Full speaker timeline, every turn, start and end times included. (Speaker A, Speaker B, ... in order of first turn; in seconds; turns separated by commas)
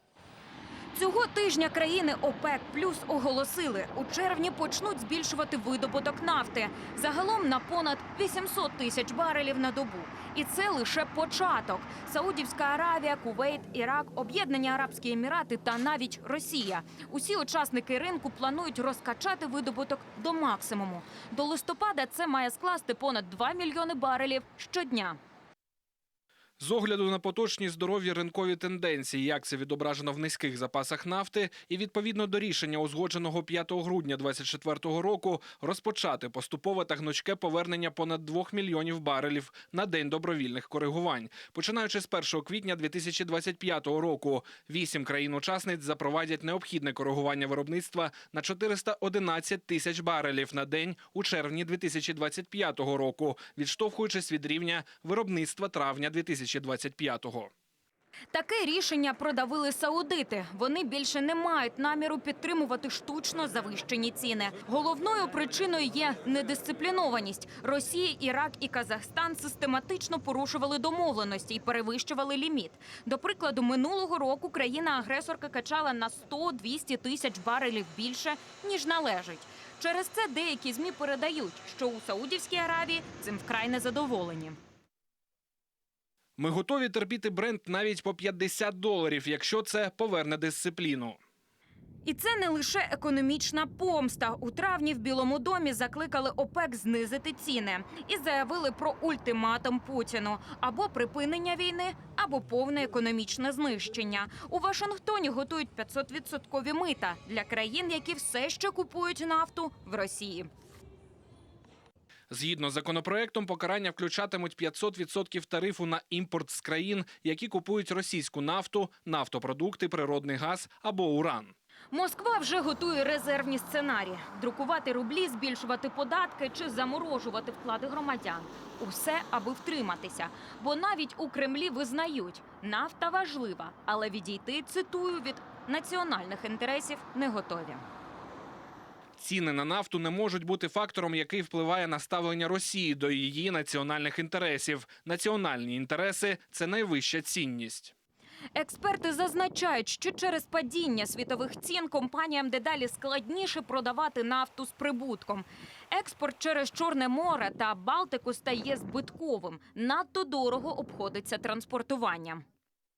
Speaker A: 0.9-25.2, Speaker B: 26.6-57.5, Speaker A: 58.3-84.6, Speaker B: 86.4-91.2, Speaker A: 92.0-110.5, Speaker B: 112.3-121.5, Speaker A: 121.9-137.8, Speaker B: 139.2-147.9, Speaker A: 148.6-162.4